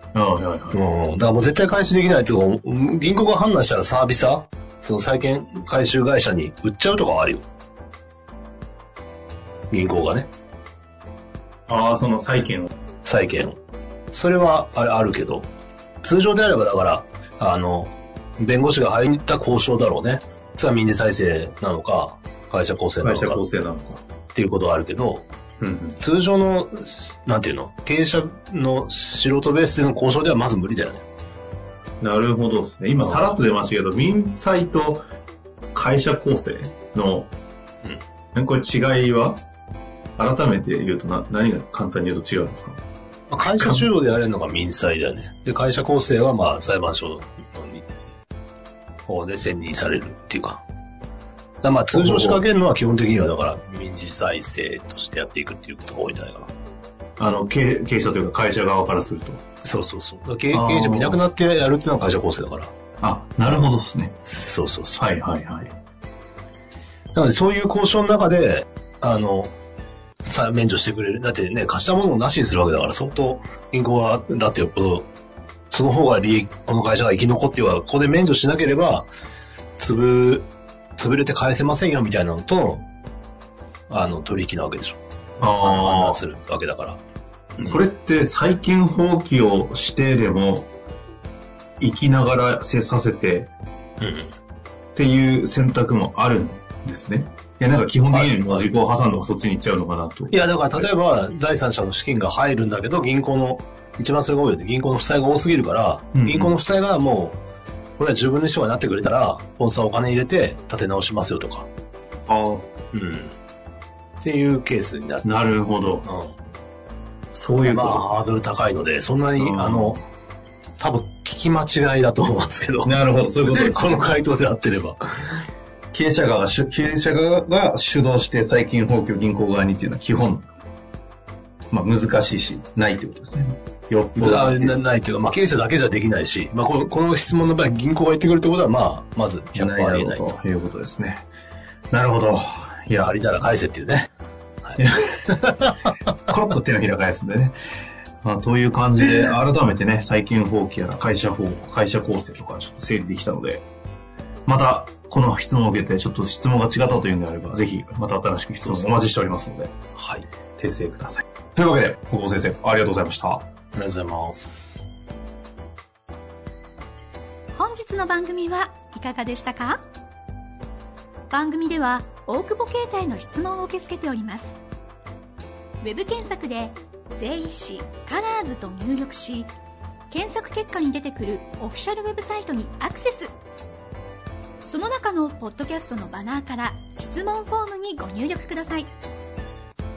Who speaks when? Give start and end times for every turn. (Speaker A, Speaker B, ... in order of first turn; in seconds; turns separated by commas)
Speaker A: 0.1-0.8, Speaker B: 0.7-7.5, Speaker B: 9.7-10.3, Speaker A: 11.7-12.7, Speaker B: 13.0-13.6, Speaker B: 14.1-15.5, Speaker B: 16.0-23.4, Speaker A: 23.0-24.0, Speaker B: 24.3-25.3, Speaker A: 25.6-26.0, Speaker B: 26.0-31.0, Speaker A: 32.0-35.0, Speaker B: 33.0-33.4, Speaker A: 35.7-37.3, Speaker A: 38.3-39.4, Speaker A: 40.2-42.8, Speaker B: 43.3-47.9, Speaker A: 43.4-43.9, Speaker B: 49.1-50.6, Speaker B: 51.6-56.5, Speaker A: 51.9-52.4, Speaker A: 57.2-59.4, Speaker B: 59.6-62.7, Speaker A: 60.5-61.2, Speaker A: 63.0-64.2, Speaker B: 64.2-65.0, Speaker A: 64.9-65.7, Speaker B: 67.1-69.5, Speaker B: 70.2-75.1, Speaker B: 75.7-79.1, Speaker B: 79.8-82.8, Speaker B: 83.9-87.0, Speaker A: 85.4-86.2, Speaker A: 87.6-90.7, Speaker A: 91.8-93.5, Speaker B: 94.0-94.3, Speaker A: 94.9-100.9, Speaker B: 98.1-98.6, Speaker B: 100.3-107.4, Speaker A: 106.1-106.5, Speaker B: 108.0-111.7, Speaker A: 112.3-112.7, Speaker B: 112.9-113.3, Speaker B: 114.2-115.3, Speaker A: 115.2-116.1, Speaker B: 116.0-116.3, Speaker A: 117.3-118.1, Speaker B: 117.7-120.0, Speaker A: 119.4-120.0, Speaker B: 120.8-123.0, Speaker A: 122.8-124.0, Speaker B: 123.5-125.4, Speaker A: 125.9-130.4, Speaker A: 131.7-134.8, Speaker B: 134.2-140.3, Speaker A: 139.5-141.2, Speaker A: 141.9-143.2, Speaker B: 143.0-144.1, Speaker A: 144.8-145.4, Speaker B: 145.3-145.6, Speaker A: 146.3-147.6, Speaker A: 148.2-153.6, Speaker A: 154.4-159.7, Speaker B: 160.0-160.2, Speaker A: 160.6-163.4, Speaker B: 163.7-164.8, Speaker C: 167.5-169.8, Speaker C: 171.3-174.6, Speaker C: 175.8-179.5, Speaker C: 180.1-183.3, Speaker C: 184.6-188.9